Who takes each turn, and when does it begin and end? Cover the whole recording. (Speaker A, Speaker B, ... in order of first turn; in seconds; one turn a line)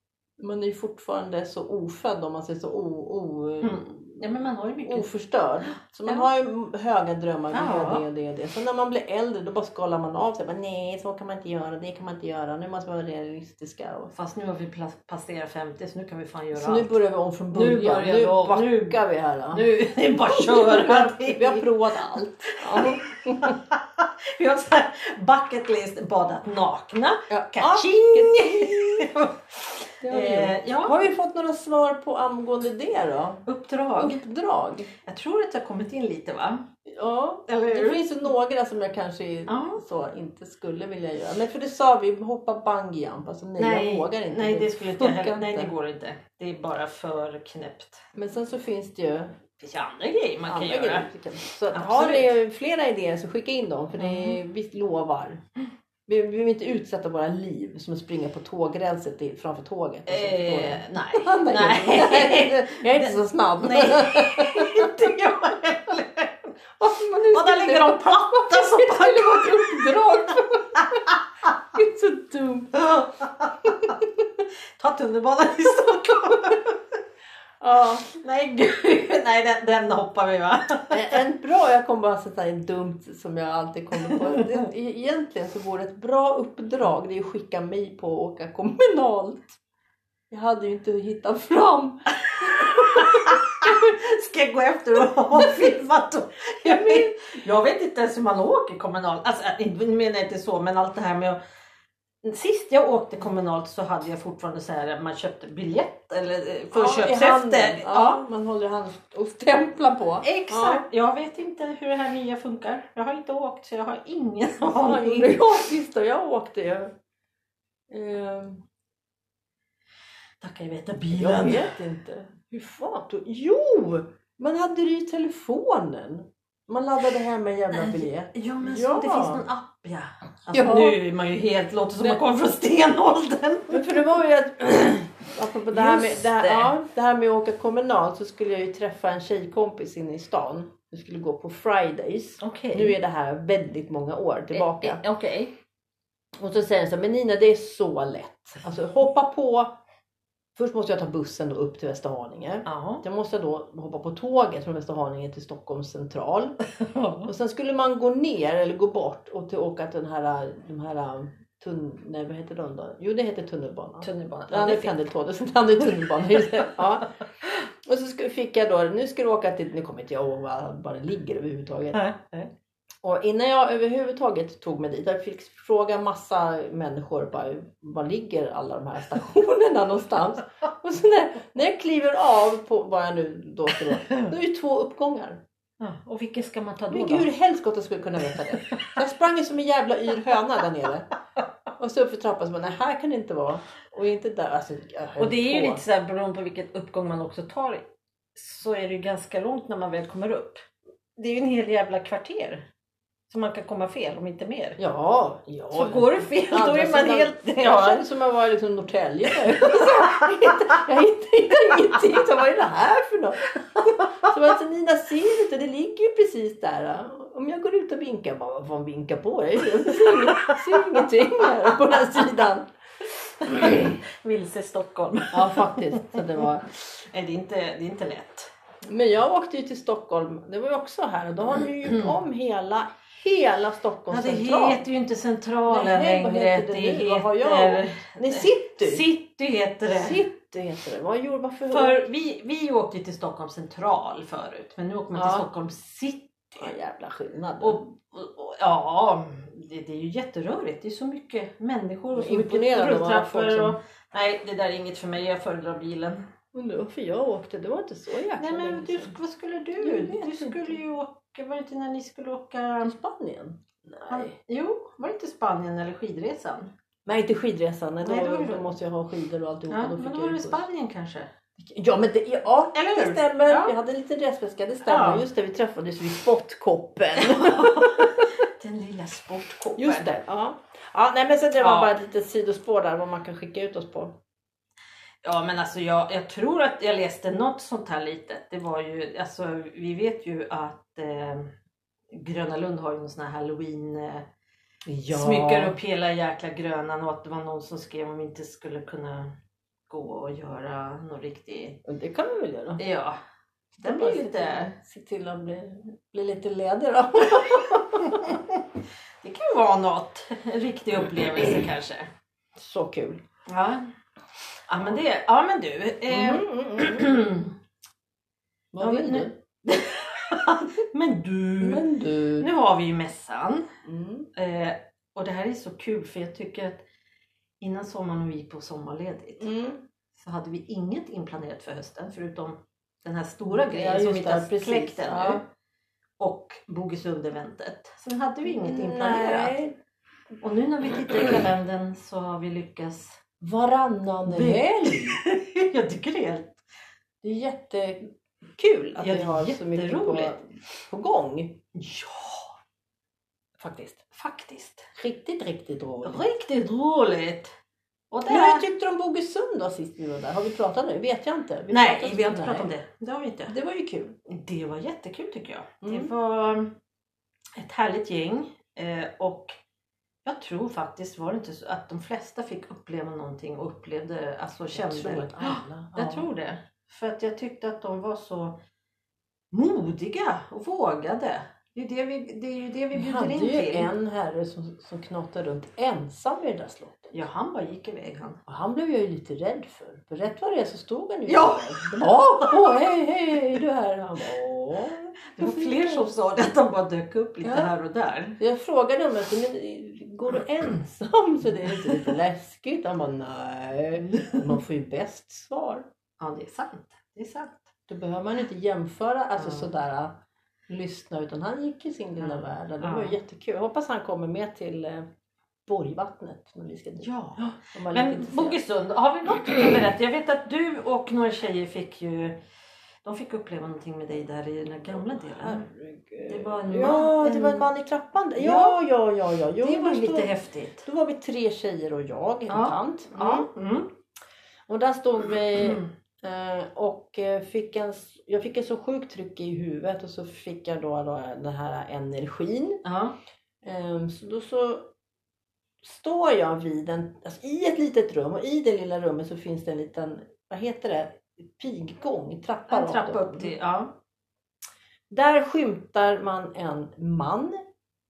Speaker A: 0.4-4.3
Speaker B: 3.6-5.1
Speaker A: 4.8-14.1
Speaker B: 7.5-8.0
Speaker B: 14.1-17.0
Speaker A: 16.5-19.6
Speaker B: 17.5-19.0
Speaker B: 19.5-21.7
Speaker A: 20.3-23.6
Speaker B: 22.5-31.1
Speaker A: 27.3-29.1
Speaker A: 30.0-33.4
Speaker B: 33.5-34.2
Speaker A: 34.0-34.9
Speaker B: 35.0-36.7
Speaker A: 36.9-45.7
Speaker B: 37.5-38.0
Speaker B: 39.5-39.8
Speaker B: 43.6-48.0
Speaker A: 48.1-49.4
Speaker B: 49.6-51.1
Speaker A: 50.4-55.4
Speaker B: 51.7-52.4
Speaker B: 54.0-54.4
Speaker A: 56.1-65.1
Speaker B: 60.1-66.5
Speaker A: 66.8-71.0
Speaker B: 67.3-71.2
Speaker A: 71.7-72.8
Speaker B: 72.7-74.0
Speaker B: 74.8-76.8
Speaker A: 77.6-78.1
Speaker B: 78.0-81.2
Speaker A: 80.9-89.6
Speaker B: 84.1-84.6
Speaker A: 90.3-93.9
Speaker B: 92.3-101.4
Speaker A: 95.3-95.7
Speaker A: 96.6-97.1
Speaker B: 102.2-108.2
Speaker A: 106.7-110.9
Speaker B: 110.2-115.7
Speaker A: 114.6-116.9
Speaker A: 117.9-118.6
Speaker B: 120.4-121.8
Speaker A: 121.1-129.4
Speaker B: 127.7-134.0
Speaker A: 130.5-131.0
Speaker A: 133.7-145.0
Speaker B: 135.7-136.7
Speaker B: 142.4-143.0
Speaker B: 144.5-145.5
Speaker A: 146.4-149.7
Speaker A: 150.6-156.6
Speaker B: 152.7-153.0
Speaker B: 156.8-157.3
Speaker A: 157.3-172.0
Speaker B: 164.0-165.0
Speaker B: 165.8-166.5
Speaker B: 171.9-172.5
Speaker A: 173.0-185.4
Speaker B: 185.8-187.3
Speaker A: 186.9-191.1
Speaker A: 191.8-195.8
Speaker B: 195.2-197.8
Speaker B: 198.3-200.6
Speaker B: 201.2-202.7
Speaker B: 203.3-204.8
Speaker A: 204.8-222.7
Speaker B: 205.7-208.1
Speaker B: 209.3-210.8
Speaker B: 213.6-214.3
Speaker B: 219.9-221.1
Speaker B: 223.4-228.5
Speaker A: 225.3-226.7
Speaker A: 228.9-234.8
Speaker B: 231.8-232.1
Speaker B: 234.1-240.2
Speaker A: 235.7-239.1
Speaker A: 239.9-242.0
Speaker B: 241.7-246.5
Speaker A: 245.1-245.5
Speaker A: 246.6-247.8
Speaker B: 247.6-256.2
Speaker A: 252.1-253.8
Speaker A: 256.5-259.1
Speaker B: 258.4-262.9
Speaker A: 259.8-260.8
Speaker A: 262.8-264.3
Speaker B: 264.1-266.7
Speaker A: 267.1-270.6
Speaker B: 268.0-268.7
Speaker B: 269.7-271.3
Speaker A: 271.6-278.3
Speaker B: 272.7-273.8
Speaker B: 274.9-275.2
Speaker B: 277.2-280.1
Speaker A: 279.8-284.1
Speaker B: 281.6-281.9
Speaker B: 285.2-291.5
Speaker B: 292.1-294.3
Speaker A: 294.9-295.8
Speaker B: 295.1-299.4
Speaker B: 299.9-301.8
Speaker A: 301.9-302.8
Speaker B: 302.8-303.2
Speaker A: 303.7-308.4
Speaker B: 303.8-304.7
Speaker B: 307.8-308.6
Speaker B: 309.2-312.1
Speaker A: 312.6-313.2
Speaker B: 313.5-313.9
Speaker B: 314.7-317.5
Speaker A: 316.1-317.4
Speaker A: 318.7-319.3
Speaker B: 318.8-321.9
Speaker A: 321.6-322.5
Speaker B: 322.4-323.7
Speaker A: 323.9-324.3
Speaker B: 324.4-326.8
Speaker B: 327.6-329.5
Speaker A: 329.4-329.8
Speaker B: 330.1-335.4
Speaker A: 333.5-335.4
Speaker B: 336.2-339.6
Speaker A: 338.5-339.8
Speaker B: 340.4-343.2
Speaker A: 343.4-345.2
Speaker B: 344.3-346.6
Speaker A: 347.2-351.6
Speaker B: 349.0-350.4
Speaker B: 351.8-352.5
Speaker A: 353.6-354.0
Speaker B: 354.0-354.9
Speaker A: 355.0-356.3
Speaker B: 356.0-357.5
Speaker B: 358.1-358.7
Speaker A: 358.3-362.7
Speaker B: 361.7-363.6
Speaker A: 363.5-364.2
Speaker B: 364.3-366.7
Speaker A: 365.8-366.1
Speaker B: 367.6-369.6
Speaker B: 370.2-378.6
Speaker A: 374.7-376.3
Speaker B: 379.5-383.9
Speaker A: 382.9-387.2
Speaker B: 387.1-388.4
Speaker A: 388.5-396.1
Speaker B: 391.3-392.8
Speaker B: 395.3-398.4
Speaker A: 397.4-397.7
Speaker A: 398.4-405.9
Speaker B: 404.1-404.5
Speaker B: 406.2-407.7
Speaker A: 407.9-410.1
Speaker B: 409.4-409.7
Speaker A: 410.7-415.1
Speaker B: 412.2-413.2
Speaker A: 415.7-418.6
Speaker B: 417.0-422.4
Speaker B: 423.0-425.7
Speaker A: 424.9-430.3
Speaker B: 426.3-427.7
Speaker B: 428.4-428.8
Speaker B: 429.6-430.9
Speaker A: 430.8-433.5
Speaker B: 432.5-433.9
Speaker A: 434.7-442.8
Speaker B: 435.5-435.9
Speaker B: 442.8-443.1
Speaker A: 443.6-444.9
Speaker A: 445.8-453.5
Speaker B: 452.7-453.9
Speaker A: 455.1-457.6